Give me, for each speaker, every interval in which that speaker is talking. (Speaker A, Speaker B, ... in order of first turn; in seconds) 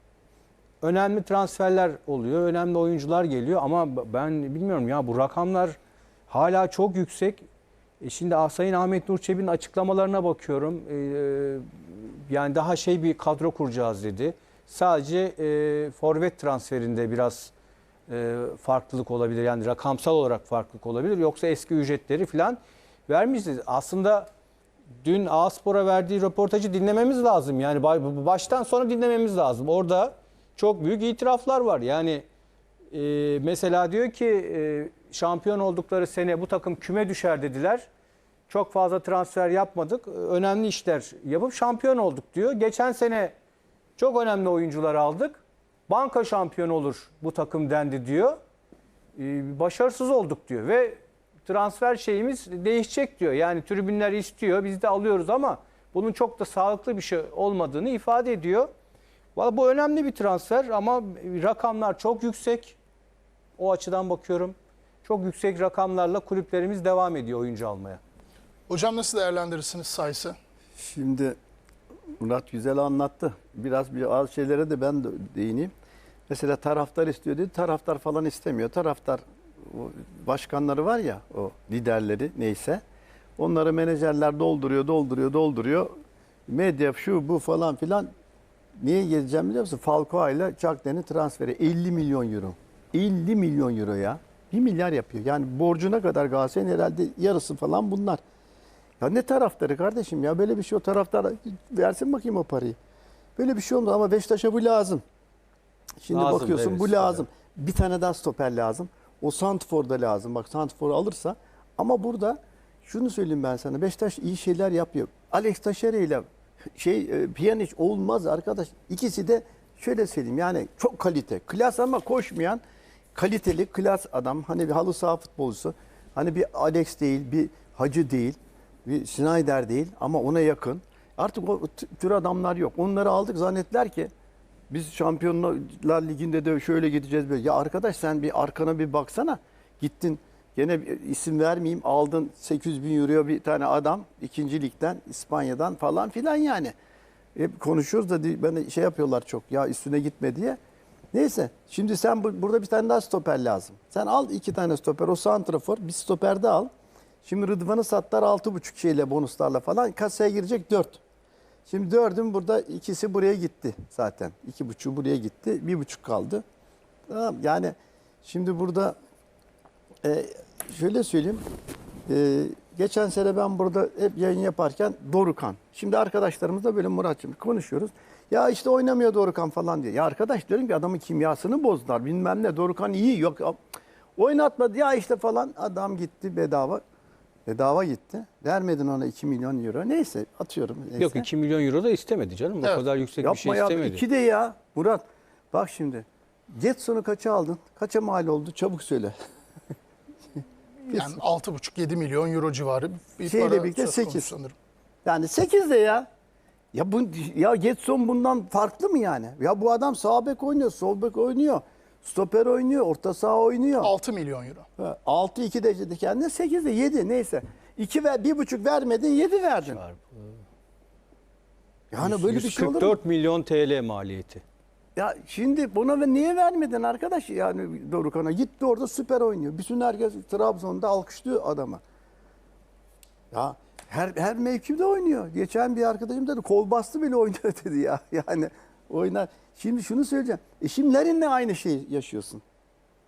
Speaker A: 0.8-5.8, 6.3-7.4, 8.0-17.5, 18.1-24.3, 25.0-32.3, 32.9-37.9, 38.5-43.3, 44.0-48.4, 49.2-58.7, 59.4-62.8, 63.6-68.0, 106.1-107.2, 191.0-194.0, 219.6-220.4, 222.0-224.4
Speaker B: 68.7-70.4, 200.9-204.6, 213.8-214.7
Speaker C: 70.8-71.4, 72.2-75.7, 76.3-82.8, 83.4-85.9, 86.5-88.1, 88.8-98.2, 99.0-102.8, 103.4-105.0, 106.0-116.2, 116.8-122.6, 123.2-134.1, 134.7-146.7, 147.3-150.6, 151.1-156.7, 157.2-161.0, 161.7-166.4, 167.1-169.0, 170.0-171.4, 172.1-183.6, 184.2-186.8, 187.5-191.3, 193.2-199.2, 203.3-204.3, 205.1-206.1, 206.7-213.9, 214.8-219.8, 221.9-223.0, 225.0-231.8, 233.3-242.4